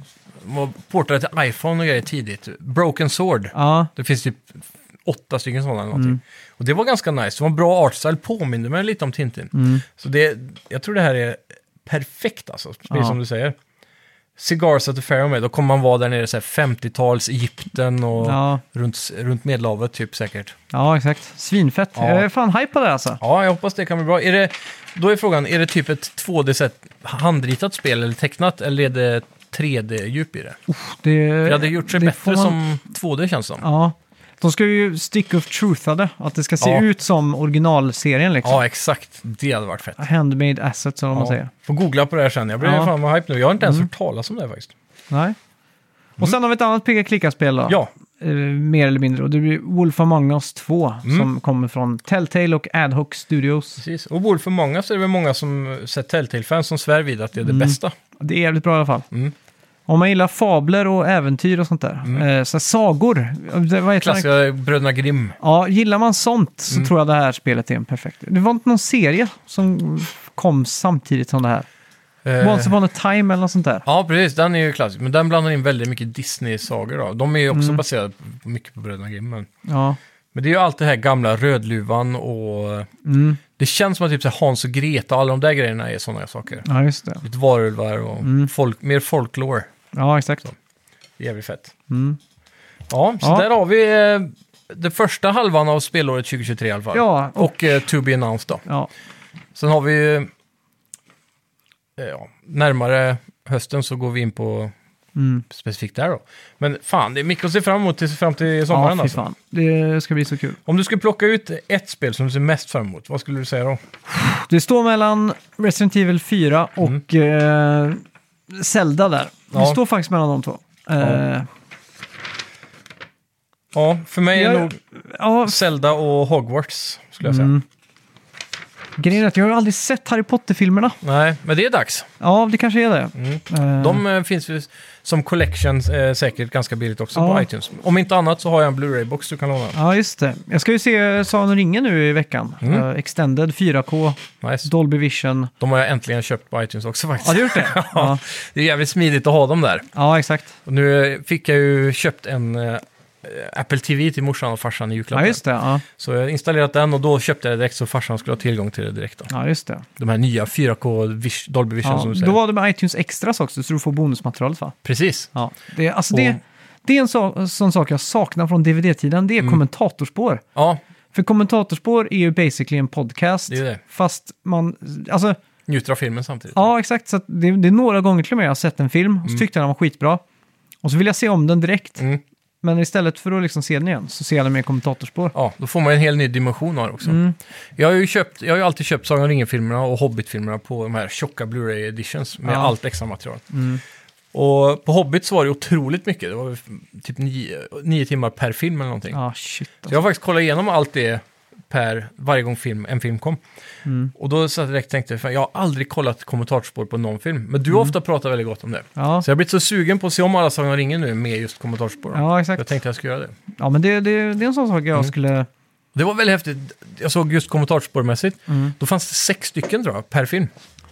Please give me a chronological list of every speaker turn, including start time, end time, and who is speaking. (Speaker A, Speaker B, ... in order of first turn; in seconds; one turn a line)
Speaker A: 0.4-13.6
Speaker B: 3.5-3.9
Speaker B: 5.9-6.2
Speaker B: 9.5-9.8
Speaker B: 12.9-13.2
Speaker A: 14.4-20.6
Speaker B: 18.2-18.6
Speaker B: 20.7-23.2
Speaker A: 21.9-22.2
Speaker A: 23.2-30.6
Speaker B: 30.7-32.6
Speaker A: 31.4-33.6
Speaker B: 33.6-38.6
Speaker A: 38.4-40.0
Speaker B: 40.0-41.5
Speaker A: 41.1-44.7
Speaker B: 42.6-42.9
Speaker B: 45.1-45.4
Speaker B: 46.2-53.8
Speaker A: 53.8-57.9
Speaker B: 57.4-59.1
Speaker B: 59.9-64.3
Speaker A: 64.0-65.4
Speaker B: 65.4-71.7
Speaker A: 72.2-72.7
Speaker B: 72.4-73.8
Speaker A: 73.8-79.5
Speaker B: 77.5-77.8
Speaker B: 79.7-80.0
Speaker A: 80.3-82.9
Speaker B: 83.0-83.4
Speaker A: 83.6-86.6
Speaker B: 86.6-87.2
Speaker A: 87.2-89.7
Speaker B: 88.2-88.5
Speaker B: 89.9-90.5
Speaker A: 91.2-91.7
Speaker B: 91.9-92.2
Speaker A: 92.9-98.6
Speaker B: 93.2-93.5
Speaker B: 96.9-97.8
Speaker A: 99.5-100.3
Speaker A: 102.0-104.7
Speaker B: 105.2-105.4
Speaker A: 105.5-109.2
Speaker B: 108.7-110.6
Speaker A: 110.7-113.8
Speaker B: 114.1-121.5
Speaker A: 119.5-119.8
Speaker A: 123.7-124.8
Speaker B: 124.3-125.6
Speaker A: 125.5-127.5
Speaker B: 127.2-127.6
Speaker B: 129.0-131.0
Speaker A: 131.0-132.1
Speaker B: 132.2-134.0
Speaker A: 133.2-139.8
Speaker B: 137.2-137.5
Speaker B: 139.7-145.5
Speaker A: 144.4-144.7
Speaker A: 145.6-149.9
Speaker B: 147.2-148.2
Speaker B: 149.9-150.5
Speaker A: 150.7-155.4
Speaker B: 155.1-155.8
Speaker A: 155.9-159.3
Speaker B: 159.3-159.8
Speaker A: 160.0-162.3
Speaker B: 161.8-164.7
Speaker A: 164.8-165.3
Speaker B: 165.3-170.4
Speaker A: 166.1-166.4
Speaker B: 171.1-175.4
Speaker A: 173.5-173.8
Speaker A: 175.7-176.7
Speaker B: 176.5-180.2
Speaker B: 180.8-182.0
Speaker B: 182.6-185.3
Speaker A: 185.3-187.2
Speaker B: 187.0-187.3
Speaker A: 187.8-193.4
Speaker B: 192.4-192.7
Speaker B: 193.5-193.8
Speaker A: 194.3-199.2
Speaker B: 199.1-199.9
Speaker A: 199.9-203.4
Speaker B: 203.8-204.1
Speaker A: 204.2-213.3
Speaker B: 209.0-209.2
Speaker B: 212.1-212.7
Speaker B: 213.6-215.5
Speaker A: 215.9-220.5
Speaker B: 218.5-218.7